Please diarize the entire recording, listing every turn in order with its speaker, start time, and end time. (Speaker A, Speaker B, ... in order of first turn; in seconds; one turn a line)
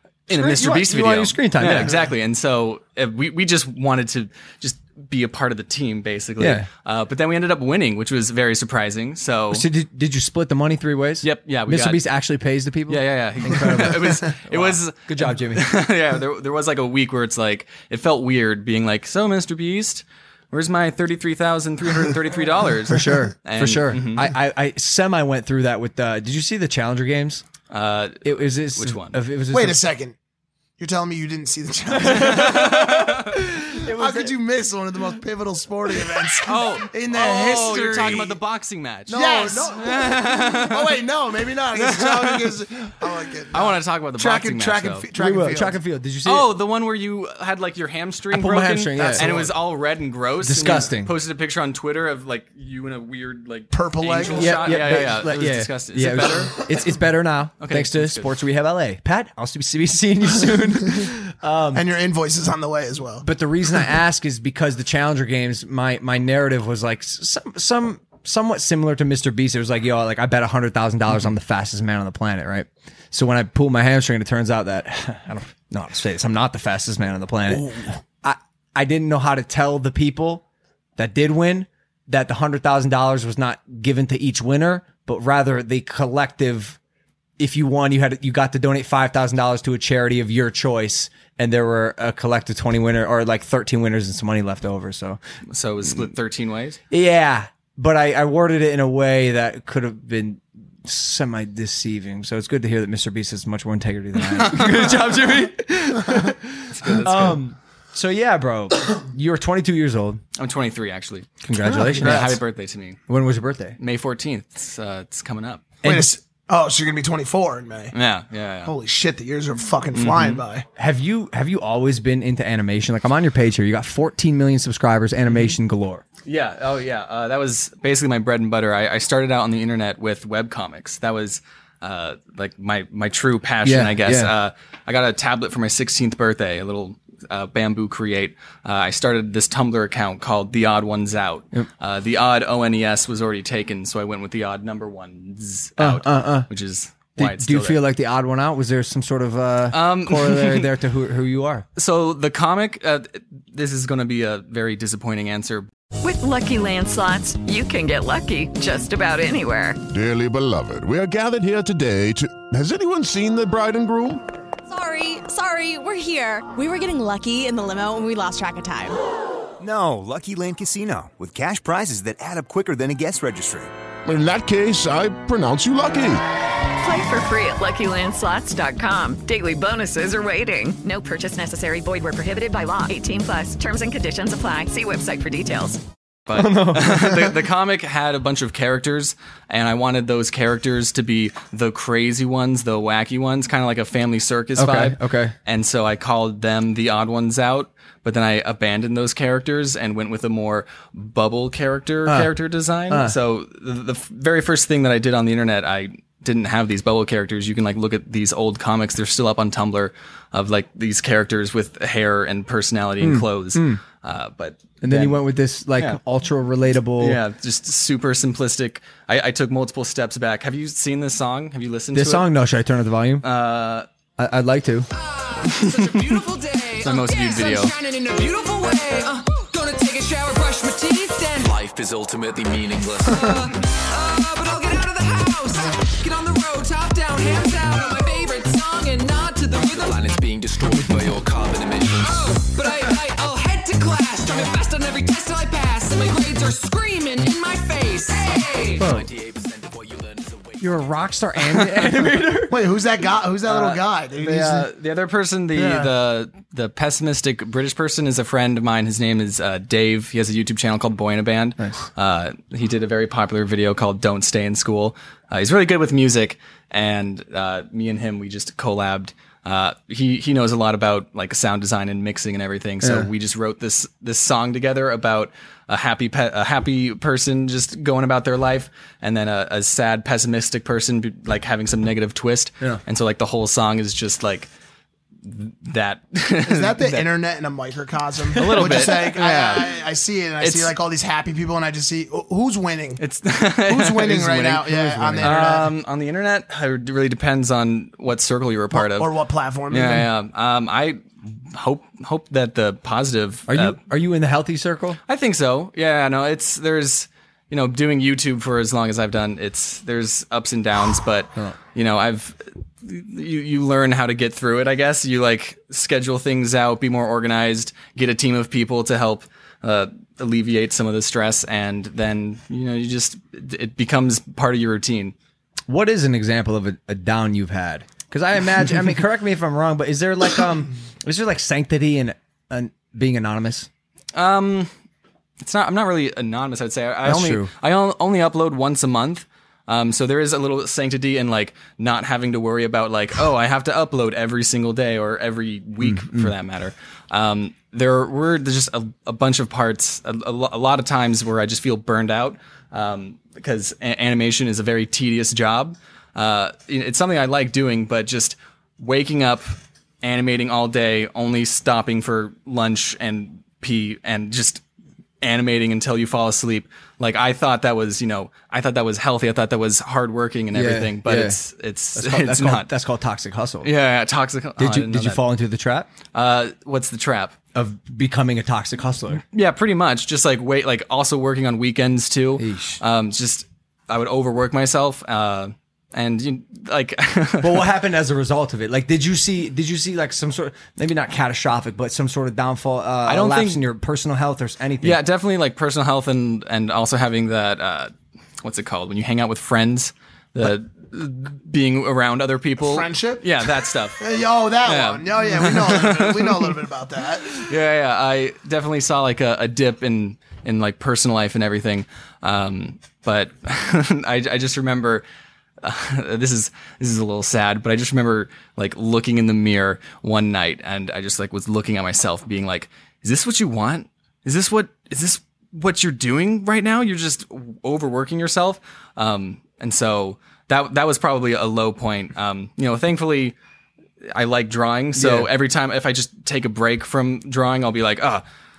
Speaker A: 0.3-9.7
Speaker B: 0.3-1.9
Speaker B: 6.4-6.7
Speaker B: 9.5-15.7
Speaker A: 11.2-12.0
Speaker A: 12.9-24.3
Speaker B: 22.9-27.4
Speaker A: 27.7-29.2
Speaker B: 28.2-29.8
Speaker C: 29.5-30.1
Speaker C: 30.8-38.4
Speaker B: 32.0-32.9
Speaker A: 32.0-33.3
Speaker B: 33.7-34.4
Speaker A: 36.4-41.0
Speaker C: 39.1-45.8
Speaker A: 41.8-42.5
Speaker A: 43.5-45.0
Speaker B: 45.1-46.5
Speaker A: 46.2-56.7
Speaker B: 48.3-49.3
Speaker C: 49.0-49.5
Speaker B: 50.4-51.1
Speaker C: 53.7-55.0
Speaker B: 54.3-61.8
Speaker A: 57.6-58.3
Speaker C: 61.7-63.2
Speaker B: 63.2-80.4
Speaker B: 81.0-86.8
Speaker B: 87.4-95.2
Speaker A: 95.5-96.8
Speaker B: 96.9-110.2
Speaker A: 104.3-105.1
Speaker A: 106.7-107.4
Speaker A: 110.4-113.0
Speaker B: 111.4-112.4
Speaker C: 111.6-112.3
Speaker B: 113.1-113.8
Speaker A: 113.8-115.7
Speaker B: 115.8-116.1
Speaker C: 115.8-117.9
Speaker A: 117.9-118.7
Speaker C: 118.7-120.6
Speaker A: 119.9-120.4
Speaker B: 120.8-126.0
Speaker A: 126.2-147.8
Speaker B: 133.6-134.3
Speaker B: 145.8-146.5
Speaker B: 147.2-151.7
Speaker A: 149.7-150.7
Speaker A: 151.8-155.7
Speaker D: 156.0-159.8
Speaker E: 159.9-164.2
Speaker F: 164.7-168.9
Speaker G: 169.6-173.7
Speaker E: 174.1-176.2
Speaker D: 176.8-185.8
Speaker A: 186.3-215.2
Speaker B: 186.3-187.3
Speaker B: 194.6-195.3
Speaker B: 202.9-203.1
Speaker B: 213.0-213.8
Speaker B: 214.8-217.2
Speaker A: 217.0-222.3
Speaker B: 221.9-223.2
Speaker A: 223.2-223.9
Speaker B: 224.2-224.9
Speaker H: 224.9-231.6
Speaker A: 225.6-226.2
Speaker A: 226.8-227.7
Speaker I: 231.4-233.3
Speaker H: 233.1-240.0
Speaker I: 239.7-242.1
Speaker H: 242.0-248.9
Speaker B: 248.8-249.1
Speaker I: 248.8-250.8
Speaker B: 250.6-252.6
Speaker C: 252.5-254.7
Speaker A: 253.4-284.5
Speaker C: 255.6-255.9
Speaker B: 272.8-273.1
Speaker A: 285.2-287.1
Speaker C: 286.4-293.0
Speaker A: 288.4-289.8
Speaker B: 288.4-288.8
Speaker A: 290.4-290.7
Speaker A: 293.0-299.1
Speaker C: 293.7-295.7
Speaker B: 294.6-295.6
Speaker C: 298.7-300.1
Speaker A: 299.7-303.8
Speaker B: 303.5-305.0
Speaker A: 305.1-325.1
Speaker B: 325.7-333.7
Speaker A: 334.1-334.7
Speaker A: 335.4-364.6
Speaker B: 337.1-337.5
Speaker B: 345.8-346.3
Speaker A: 365.2-372.7
Speaker B: 370.5-371.4
Speaker B: 371.9-373.7
Speaker A: 373.6-375.2
Speaker B: 374.6-375.9
Speaker A: 376.1-377.3
Speaker B: 377.5-379.2
Speaker A: 379.3-387.7
Speaker B: 382.4-382.8
Speaker B: 387.4-395.0
Speaker A: 393.1-393.6
Speaker A: 394.8-404.0
Speaker C: 402.6-403.2
Speaker C: 404.0-407.4
Speaker A: 404.6-406.6
Speaker A: 407.4-415.0
Speaker A: 415.6-433.3
Speaker A: 434.1-438.2
Speaker B: 434.9-435.3